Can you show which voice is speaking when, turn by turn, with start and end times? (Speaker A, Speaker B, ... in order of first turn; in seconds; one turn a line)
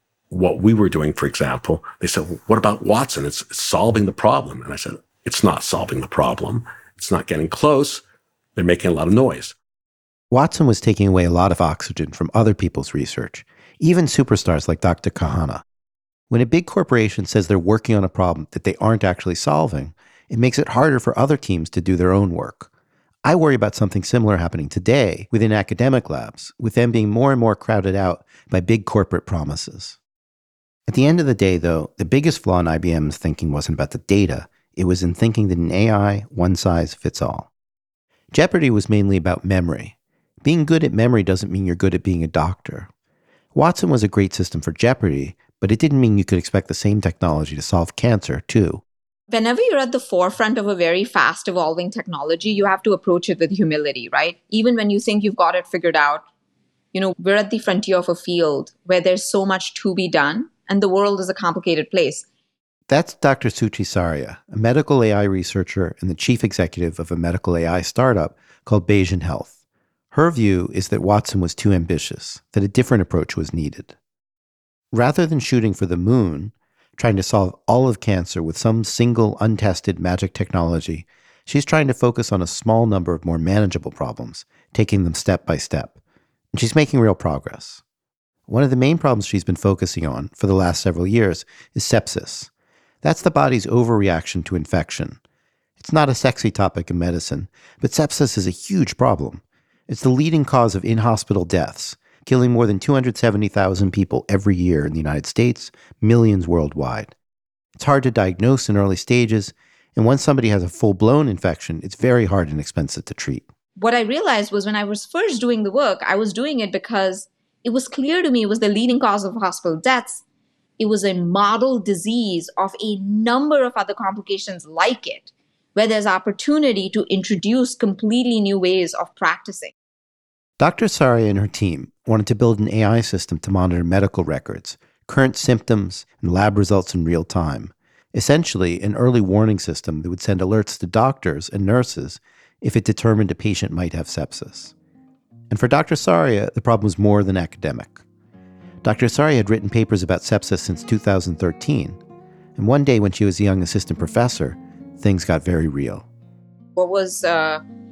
Speaker A: 0.3-8.0
Speaker A: 8.6-9.5
Speaker B: 10.3-15.6
Speaker B: 16.3-22.7
Speaker B: 23.2-30.0
Speaker B: 30.9-37.5
Speaker B: 38.3-42.9
Speaker B: 43.5-48.8
Speaker C: 49.3-56.2
Speaker C: 56.9-62.2
Speaker B: 62.9-69.5
Speaker B: 70.1-74.0
Speaker B: 74.9-86.0
Speaker B: 86.5-87.8
Speaker B: 88.5-92.5
Speaker B: 93.0-95.2
Speaker B: 95.8-107.1
Speaker B: 107.8-113.5
Speaker C: 113.8-120.2
Speaker C: 120.8-129.7
Speaker B: 130.6-144.7
Speaker B: 145.5-148.0
Speaker B: 148.8-152.0
Speaker B: 152.6-156.1
Speaker C: 156.8-157.6